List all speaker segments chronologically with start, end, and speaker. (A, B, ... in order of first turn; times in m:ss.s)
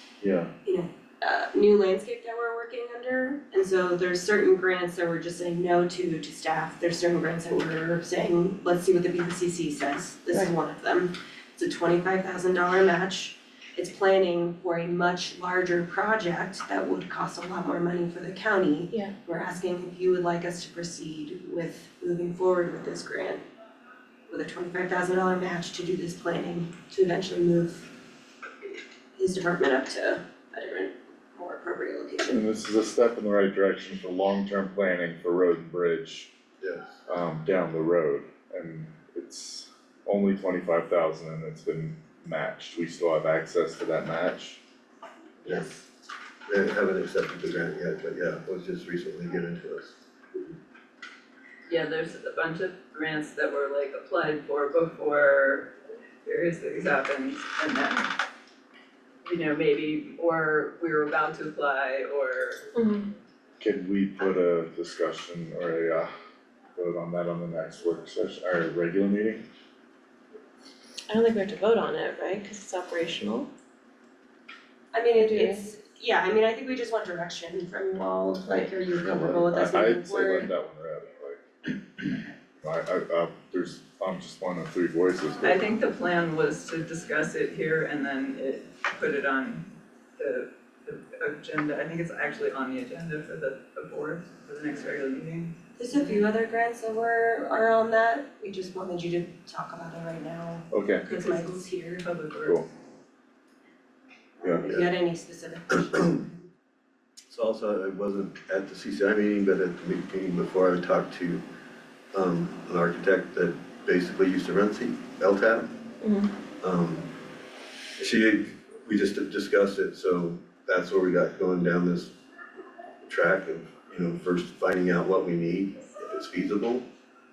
0:00.2-0:00.5 A
0:00.6-0:23.4 B
0:24.3-0:27.9 B
0:29.2-0:32.4 B
0:32.3-0:36.3 C
0:36.6-0:37.0 A
0:37.1-0:44.6 C
0:45.4-0:45.8 A
0:46.5-0:50.0 A
0:51.7-0:55.7 D
0:56.2-0:58.1 D
0:59.2-1:02.6 D
1:02.7-1:03.1 E
1:03.6-1:06.1 C
1:06.7-1:09.4 C
1:11.1-1:13.5 E
1:14.9-1:20.5 B
1:15.2-1:15.6 E
1:19.0-1:21.4 C
1:22.6-1:25.6 C
1:25.4-1:36.2 D
1:35.8-1:42.0 B
1:40.7-1:41.0 C
1:41.1-1:42.6 D
1:44.5-1:46.3 B
1:47.3-1:51.4 A
1:52.1-1:55.7 A
1:56.0-1:56.3 E
1:56.6-1:57.1 A
1:58.0-2:02.1 A
2:03.0-2:06.9 A